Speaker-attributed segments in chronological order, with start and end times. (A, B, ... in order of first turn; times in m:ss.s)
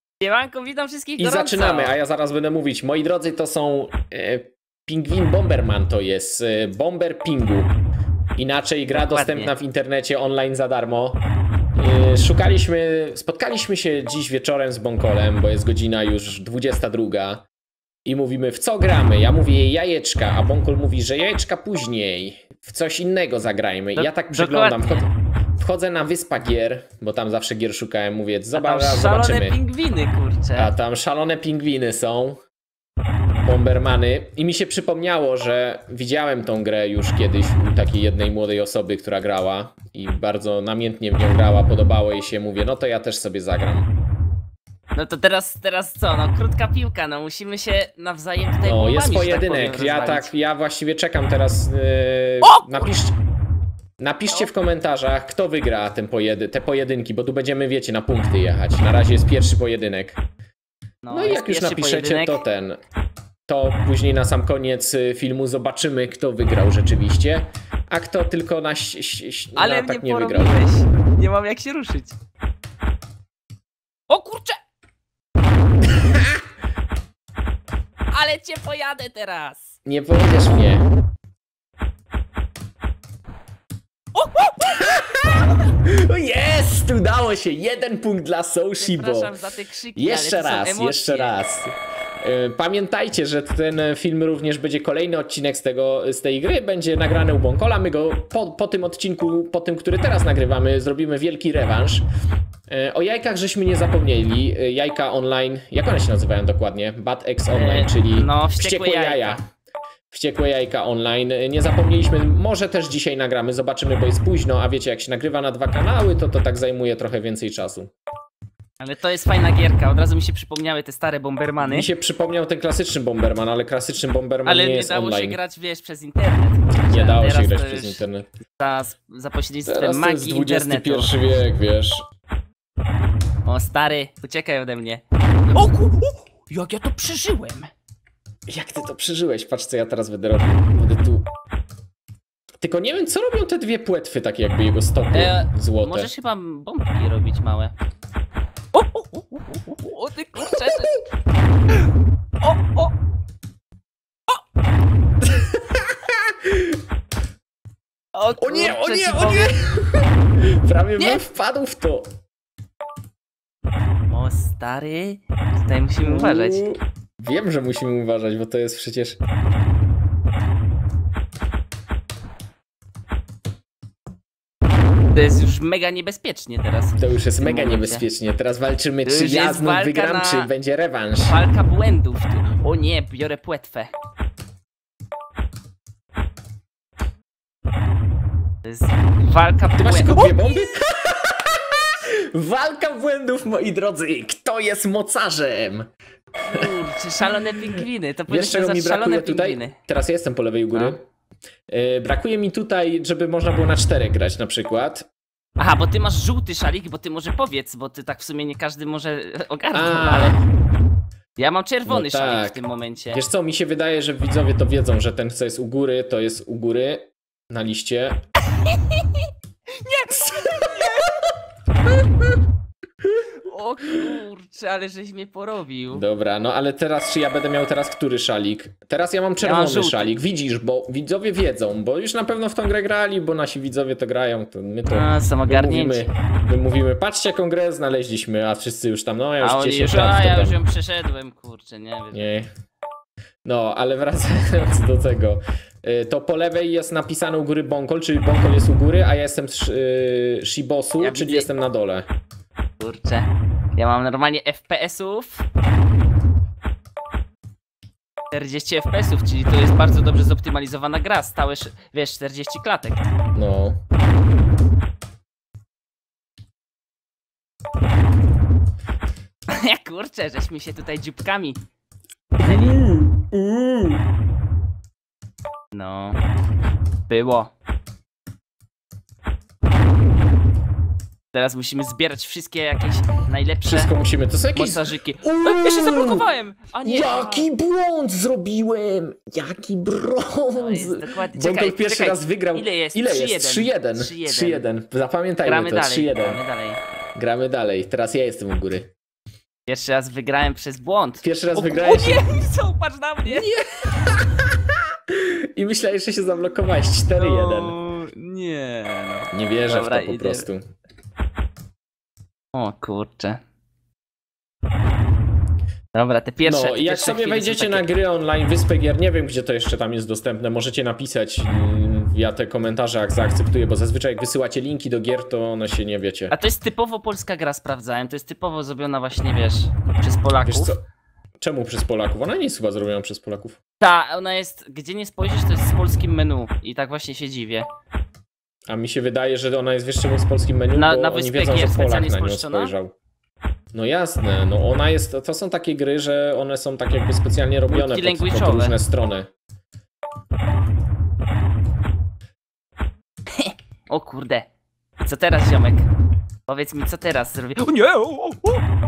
0:00.2-0:01.9 A
0:01.2-0:07.7 B
0:08.4-0:11.2 B
0:09.0-0:09.5 A
0:11.7-0:17.4 B
0:18.0-0:29.6 B
0:24.0-0:25.0 A
0:28.5-0:30.7 A
0:30.5-0:32.4 B
0:33.4-0:43.9 B
0:44.9-0:50.3 A
0:48.6-0:53.2 B
0:52.4-0:52.9 A
0:54.0-1:00.2 B
1:01.0-1:02.4 A
1:01.1-1:02.8 B
1:03.5-1:10.6 B
1:09.6-1:12.2 A
1:14.1-1:14.6 A
1:18.1-1:19.8 A
1:19.8-1:20.8 B
1:24.1-1:25.0 A
1:24.7-1:29.3 B
1:28.8-1:31.3 A
1:29.9-1:42.1 B
1:42.7-1:49.4 B
1:47.5-1:49.4 A
1:50.1-1:57.9 B
1:58.8-2:01.9 A
2:01.6-2:05.4 B
2:04.4-2:08.0 A
2:06.8-2:08.3 B
2:08.6-2:11.2 A
2:09.6-2:12.0 B
2:13.4-2:17.7 A
2:18.5-2:21.2 B
2:22.6-2:26.1 B
2:25.1-2:27.7 A
2:28.7-2:30.9 A
2:30.4-2:31.0 B
2:32.4-2:32.9 A
2:35.2-2:36.8 B
2:38.1-2:39.5 A
2:38.4-2:42.1 B
2:44.1-2:46.6 A
2:46.0-2:49.2 B
2:55.1-2:58.1 A
2:57.0-3:01.4 B
2:59.0-3:00.5 A
3:01.2-3:03.9 A
3:08.6-3:10.4 A
3:09.8-3:15.9 B
3:16.5-3:19.8 A
3:18.3-3:21.0 B
3:21.7-3:25.0 B
3:25.6-3:30.4 A
3:29.7-3:30.4 B
3:31.4-3:33.2 A
3:31.8-3:32.6 B
3:33.1-3:38.2 B
3:38.7-3:39.0 A
3:39.7-3:41.1 A
3:43.4-3:46.0 A
3:45.9-4:00.6 B
3:49.4-3:50.2 A
3:54.9-3:56.1 A
3:59.4-4:02.3 A
4:02.1-4:02.5 B
4:03.4-4:12.1 B
4:11.0-4:11.5 A
4:12.8-4:15.4 A
4:18.3-4:23.0 A
4:23.3-4:23.8 B
4:29.5-4:31.6 A
4:32.4-4:34.0 B
4:32.4-4:32.8 A
4:35.7-4:36.2 A
4:37.1-4:37.5 A
4:41.3-4:43.9 A
4:43.6-4:46.2 B
4:44.5-4:47.5 A
4:46.8-4:56.4 B
4:50.6-4:54.6 A
4:55.4-4:56.8 A
4:57.2-4:58.9 B
4:59.7-5:03.7 A
5:01.2-5:02.2 B
5:03.3-5:07.7 B
5:07.2-5:10.5 A
5:09.3-5:10.6 B
5:12.5-5:13.4 A
5:15.9-5:17.8 A
5:16.4-5:26.3 B
5:26.3-5:30.7 A
5:30.4-5:30.8 B
5:31.4-5:33.6 B
5:33.8-5:37.7 A
5:38.7-5:42.9 B
5:40.7-5:42.7 A
5:43.7-5:49.3 B
5:47.7-5:48.8 A
5:53.3-5:55.9 A
5:56.5-5:58.6 A